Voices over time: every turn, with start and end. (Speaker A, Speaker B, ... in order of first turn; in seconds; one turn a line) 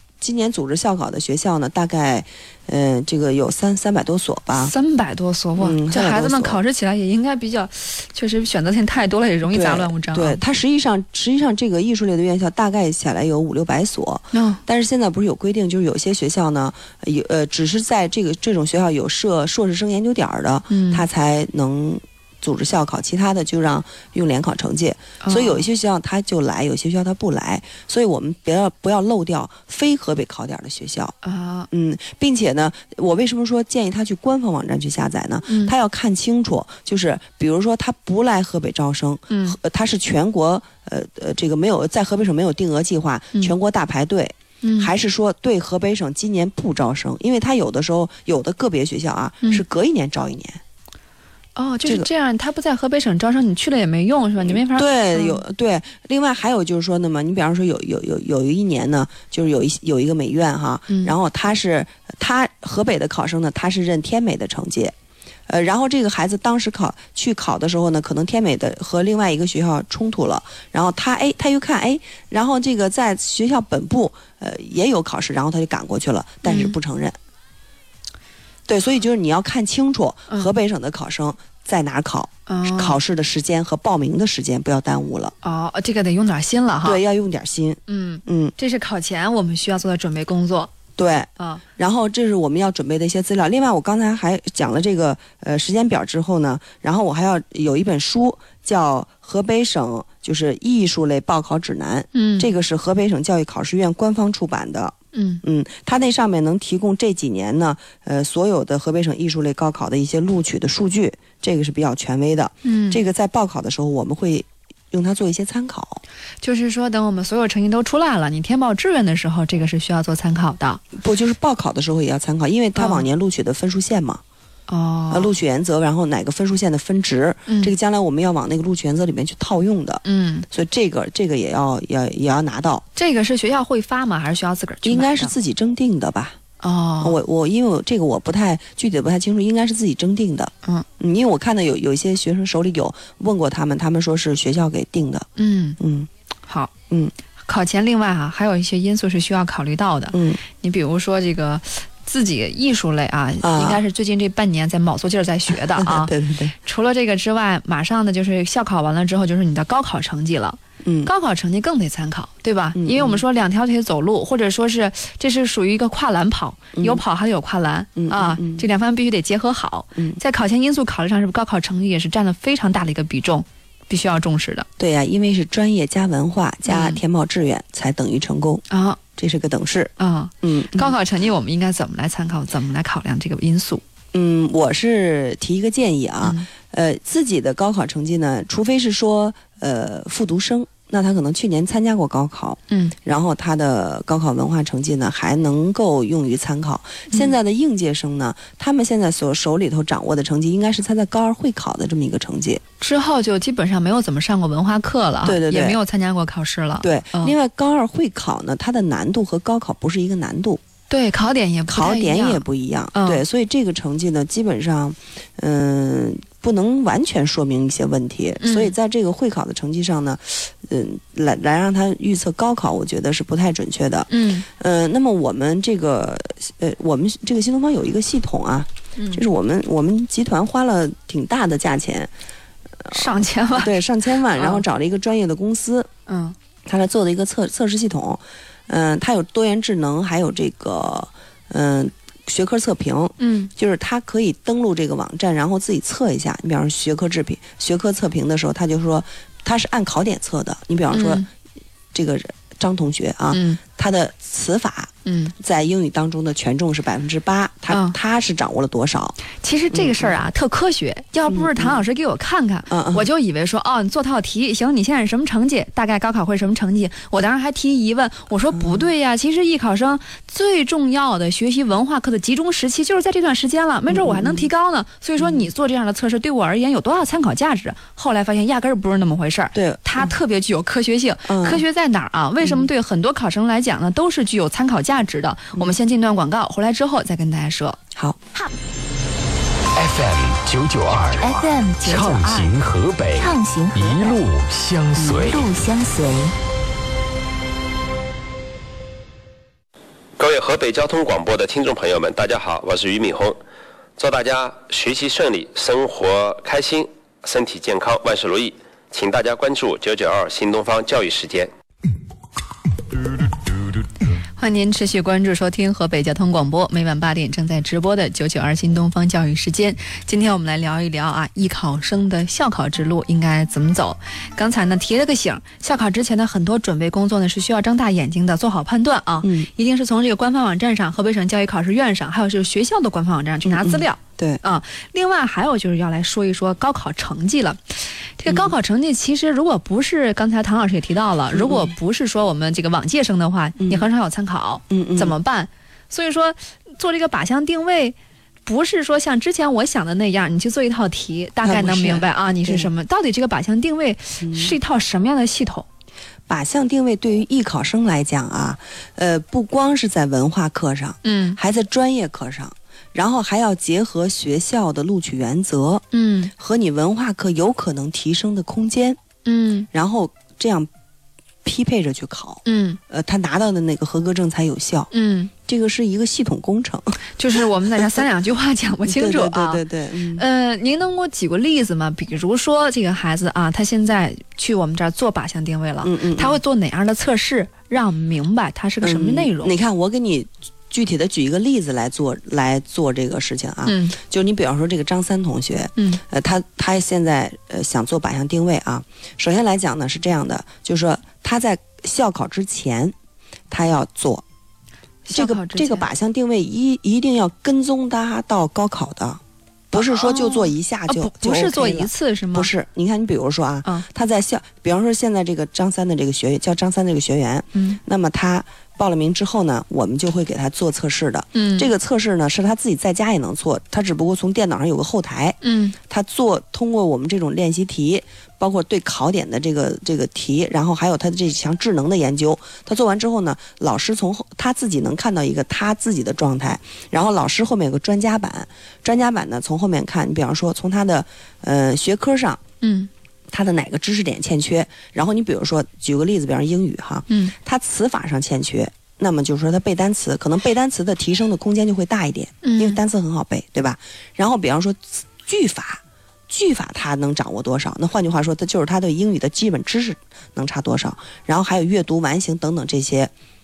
Speaker A: 0.2-4.7
Speaker B: 4.6-10.4
Speaker A: 5.6-6.6
Speaker A: 9.5-31.1
Speaker B: 14.3-14.6
Speaker B: 20.7-21.0
Speaker B: 25.2-25.6
Speaker B: 31.2-31.7
Speaker A: 31.7-50.6
Speaker B: 35.5-35.7
Speaker B: 39.3-39.6
Speaker B: 44.6-44.9
Speaker B: 51.6-55.4
Speaker A: 54.4-64.9
Speaker B: 60.9-61.2
Speaker A: 65.5-77.2
Speaker B: 76.4-76.8
Speaker A: 78.7-85.3
Speaker B: 82.5-83.0
Speaker B: 85.4-87.0
Speaker A: 86.8-88.5
Speaker B: 87.9-90.7
Speaker A: 91.0-116.0
Speaker B: 102.1-102.5
Speaker B: 105.1-105.4
Speaker B: 112.6-113.0
Speaker B: 116.4-120.8
Speaker A: 120.9-124.2
Speaker B: 122.7-123.0
Speaker B: 124.7-125.3
Speaker A: 125.1-132.8
Speaker B: 127.5-127.7
Speaker B: 130.1-130.4
Speaker B: 132.9-135.3
Speaker A: 134.8-136.4
Speaker B: 136.6-137.2
Speaker A: 137.0-146.1
Speaker B: 145.3-145.8
Speaker B: 146.5-146.7
Speaker B: 147.4-174.7
Speaker A: 150.1-150.4
Speaker A: 153.4-153.8
Speaker A: 155.5-156.5
Speaker A: 160.8-161.1
Speaker A: 162.7-163.2
Speaker A: 166.7-167.0
Speaker A: 167.9-168.7
Speaker A: 174.8-178.6
Speaker B: 176.7-177.0
Speaker B: 178.7-179.0
Speaker A: 179.2-180.9
Speaker B: 180.0-183.8
Speaker A: 184.1-202.6
Speaker B: 192.7-192.9
Speaker B: 202.8-207.3
Speaker A: 205.2-205.8
Speaker A: 206.8-210.6
Speaker B: 210.9-213.2
Speaker A: 211.7-232.1
Speaker B: 218.4-218.7
Speaker B: 224.1-224.4
Speaker B: 229.0-229.2
Speaker A: 232.8-235.9
Speaker B: 232.9-233.7
Speaker B: 234.3-234.6
Speaker B: 236.1-236.3
Speaker A: 236.7-251.2
Speaker B: 243.2-243.5
Speaker B: 250.9-251.2
Speaker A: 251.9-259.2
Speaker B: 253.3-253.6
Speaker B: 255.1-255.3
Speaker B: 257.7-257.9
Speaker B: 259.4-287.8
Speaker A: 259.7-260.1
Speaker A: 261.3-261.8
Speaker A: 262.7-263.1
Speaker A: 268.5-268.9
Speaker A: 273.9-274.5
Speaker A: 275.2-275.5
Speaker A: 279.5-280.1
Speaker A: 281.2-281.6
Speaker A: 282.4-282.7
Speaker A: 287.9-288.2
Speaker C: 289.7-295.5
Speaker D: 291.2-292.5
Speaker D: 293.2-294.2
Speaker A: 294.9-295.2
Speaker D: 295.1-296.3
Speaker E: 300.2-303.4
Speaker E: 304.0-311.5
Speaker B: 314.4-355.7
Speaker A: 329.2-329.5
Speaker A: 333.4-334.4
Speaker A: 338.3-338.6
Speaker A: 341.3-341.7
Speaker A: 343.6-343.9
Speaker A: 344.7-345.1
Speaker A: 351.4-352.7
Speaker A: 354.2-354.6
Speaker A: 356.3-365.8
Speaker B: 361.0-361.4
Speaker B: 365.9-366.3
Speaker A: 366.4-369.0
Speaker B: 369.2-369.7
Speaker A: 369.7-370.7
Speaker A: 371.4-374.9
Speaker B: 372.4-372.8
Speaker B: 374.9-375.3
Speaker A: 375.4-378.0
Speaker B: 377.2-379.6
Speaker A: 378.9-380.2
Speaker B: 380.2-389.5
Speaker A: 385.8-386.4
Speaker A: 388.8-402.9
Speaker B: 393.6-393.9
Speaker B: 395.8-396.0
Speaker A: 403.5-404.2
Speaker B: 405.1-405.9
Speaker A: 405.1-409.2
Speaker B: 409.7-412.5
Speaker A: 409.7-442.4
Speaker B: 417.5-417.8
Speaker B: 421.3-421.7
Speaker B: 425.4-425.8
Speaker B: 442.6-442.9
Speaker A: 443.3-463.1
Speaker B: 447.1-447.3
Speaker B: 452.4-452.8